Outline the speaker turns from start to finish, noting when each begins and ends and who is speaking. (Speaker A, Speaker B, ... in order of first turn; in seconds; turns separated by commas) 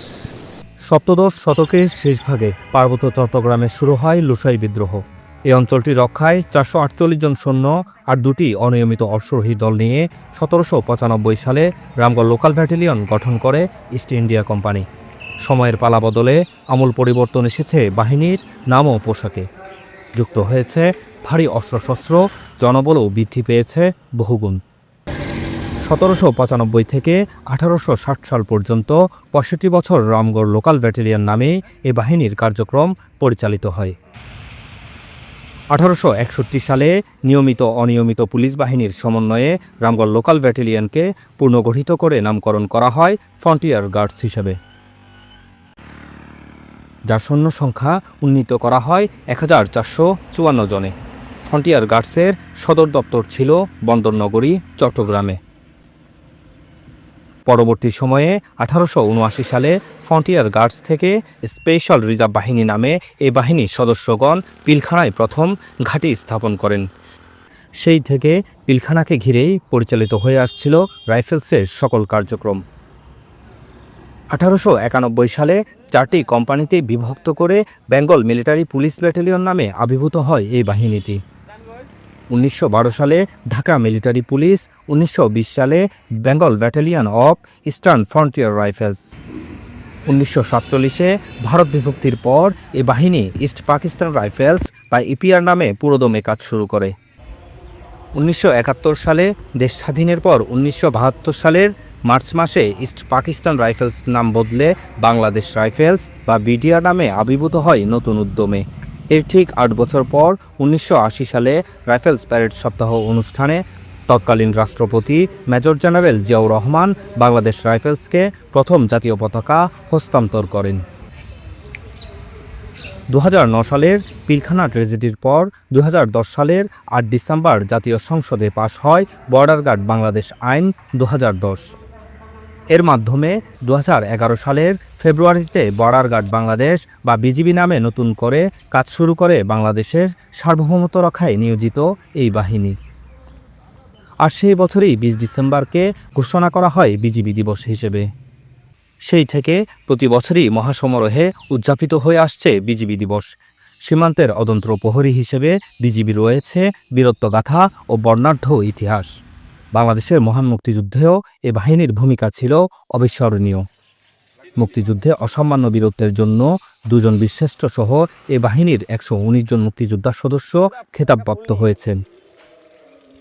Speaker A: 0.9-14.8, Speaker A: 15.4-19.5, Speaker A: 20.1-24.6, Speaker A: 25.8-33.9, Speaker A: 35.7-44.6, Speaker A: 47.1-55.4, Speaker A: 57.5-66.8, Speaker A: 67.8-72.6, Speaker A: 74.3-81.2, Speaker A: 82.3-89.1, Speaker A: 90.0-96.9, Speaker A: 98.2-120.8, Speaker A: 123.1-131.7, Speaker A: 132.7-142.8, Speaker A: 144.2-148.1, Speaker A: 149.0-153.3, Speaker A: 153.9-159.1, Speaker A: 159.7-163.6, Speaker A: 164.6-172.0